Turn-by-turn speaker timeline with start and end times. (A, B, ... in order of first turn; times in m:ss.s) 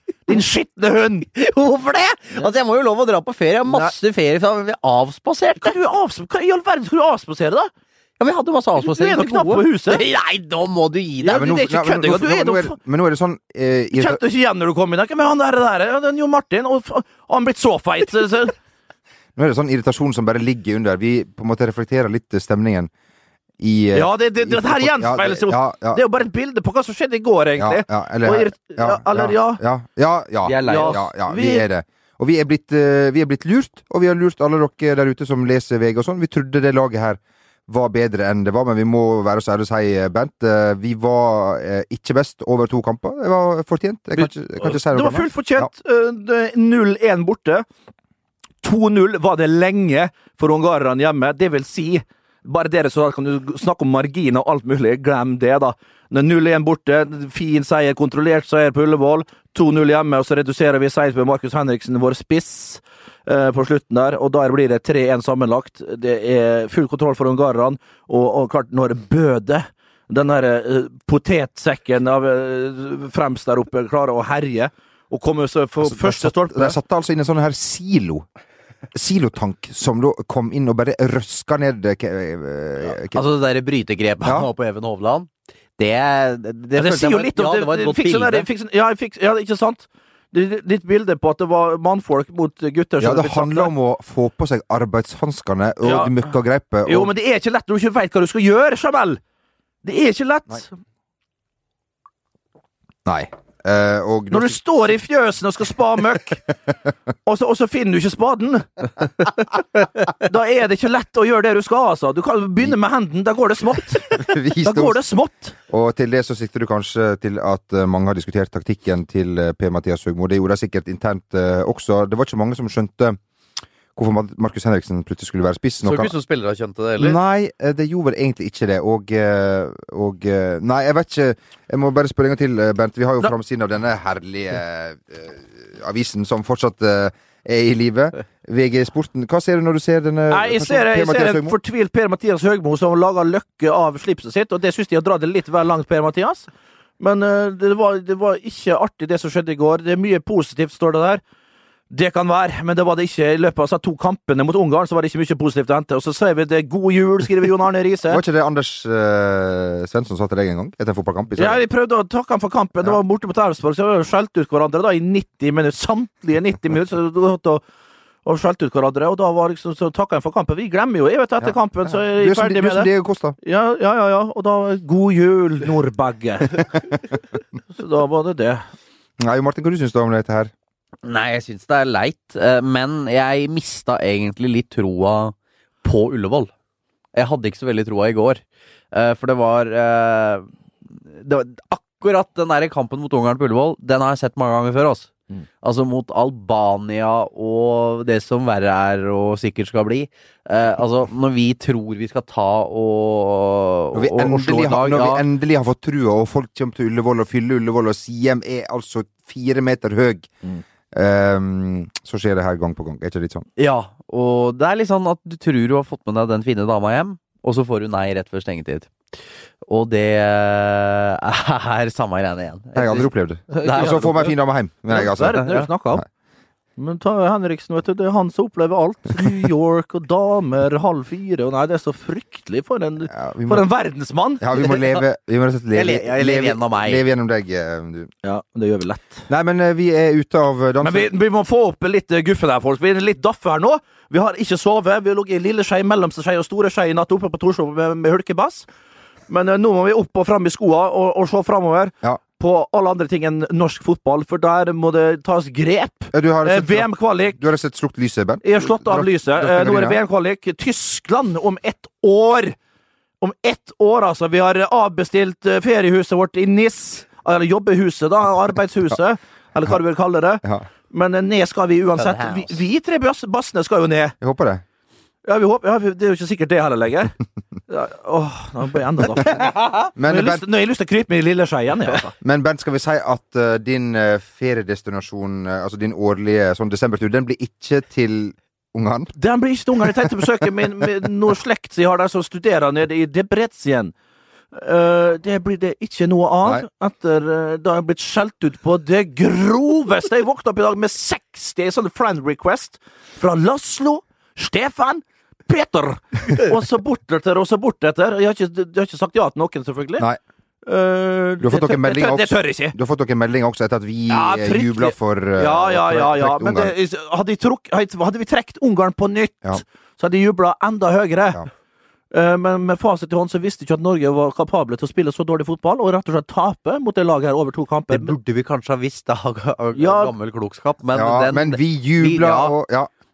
0:00.2-0:01.3 A
0:01.4-0:05.7 B
0:05.6-0:07.7 A
0:08.2-0:11.5 B
0:08.8-0:10.0 A
0:11.2-0:12.8 A
0:11.3-0:14.2 C
0:13.9-0:18.5 A
0:19.4-0:22.9 C
0:23.6-0:26.0 C
0:23.9-0:29.6 A
0:27.6-0:45.7 C
0:30.4-0:31.0 B
0:30.6-0:31.6 A
0:44.2-0:47.6 A
0:48.6-1:16.8 A
1:15.8-1:18.2 C
1:18.9-1:23.2 C
1:23.1-1:28.5 B
1:24.2-1:24.5 C
1:26.7-1:33.7 A
1:33.0-1:37.1 C
1:35.8-1:36.2 A
1:36.8-1:39.2 A
1:39.8-1:40.7 A
1:43.0-1:44.6 C
1:44.3-1:46.4 A
1:47.2-1:49.2 A
1:50.2-1:55.5 A
1:54.2-1:55.0 C
1:55.7-2:03.2 C
2:04.0-2:06.1 C
2:05.8-2:07.2 B
2:07.0-2:21.6 C
2:20.3-2:26.5 A
2:27.0-2:31.2 A
2:31.9-2:38.2 A
2:38.1-2:41.6 C
2:41.4-2:47.6 A
2:48.2-2:52.9 A
2:51.4-2:53.4 C
2:53.4-2:56.7 A
2:57.7-2:58.6 A
2:59.2-3:00.5 C
3:01.0-3:06.5 B
3:07.1-3:08.4 B
3:08.9-3:25.2 B
3:23.9-3:30.3 C
3:30.9-3:33.5 C
3:33.6-3:38.9 B
3:39.6-3:43.1 B
3:42.7-3:45.4 C
3:43.5-3:44.3 A
3:43.6-3:44.3 B
3:44.9-3:46.0 A
3:45.3-3:45.7 B
3:46.8-3:54.7 A
3:53.1-3:53.7 C
3:54.4-3:58.1 C
3:55.7-3:57.0 B
3:58.2-3:59.2 A
3:59.3-4:01.1 C
4:00.8-4:08.7 A
4:09.3-4:17.4 A
4:16.1-4:20.0 C
4:18.4-4:22.6 A
4:23.2-4:34.1 A
4:32.0-4:32.6 B
4:34.2-4:34.6 C
4:35.2-4:37.1 A
4:37.7-4:42.1 A
4:40.0-4:40.4 C
4:42.2-4:49.1 C
4:49.1-4:53.9 A
4:54.5-5:10.1 A
5:10.6-5:12.8 A
5:11.4-5:16.7 C
5:14.1-5:21.4 A
5:22.1-5:28.1 A
5:27.9-5:32.5 B
5:29.8-5:30.1 A
5:30.9-5:32.9 C